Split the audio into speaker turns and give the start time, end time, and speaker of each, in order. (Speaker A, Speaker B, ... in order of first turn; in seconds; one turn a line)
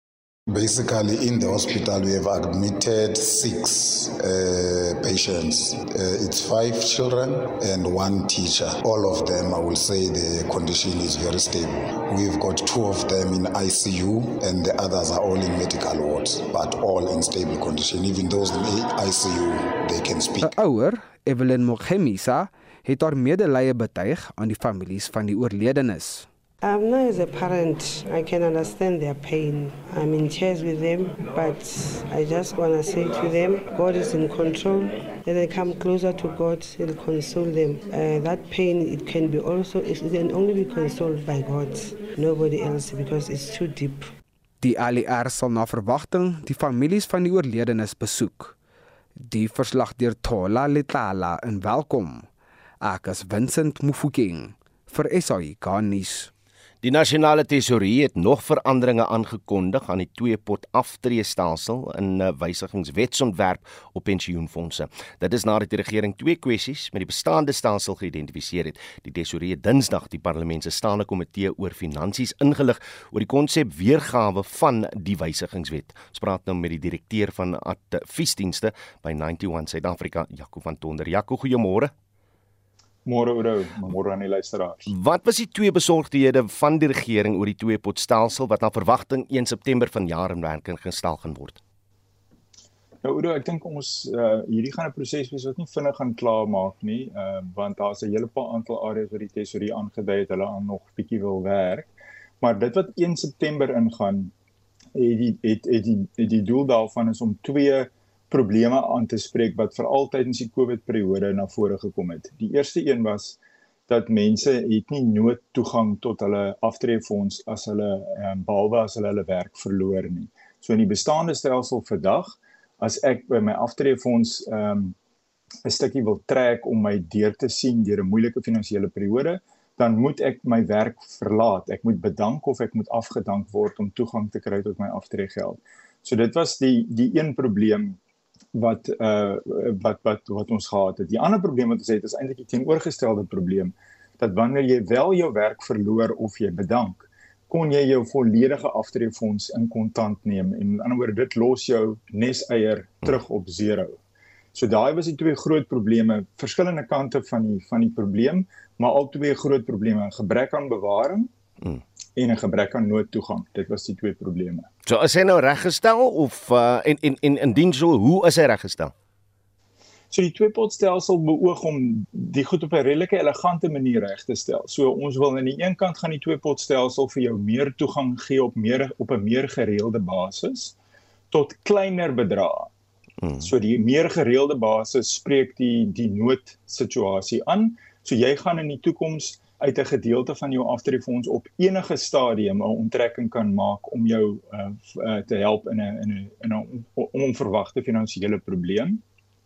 Speaker A: 0.5-20.5
Speaker B: 20.4-26.3
Speaker C: 26.6-44.1
Speaker B: 44.6-48.5
Speaker B: 49.2-52.3
Speaker B: 52.8-56.3
Speaker D: 56.8-81.9
Speaker E: 83.0-84.8
Speaker D: 84.9-91.6
Speaker E: 93.0-104.3
Speaker E: 105.0-125.0
Speaker E: 125.7-138.0
Speaker E: 138.5-154.0
Speaker E: 154.5-161.3
Speaker E: 162.2-164.7
Speaker D: 164.9-168.9
Speaker E: 170.1-180.8
Speaker E: 181.3-182.7
Speaker E: 183.4-199.0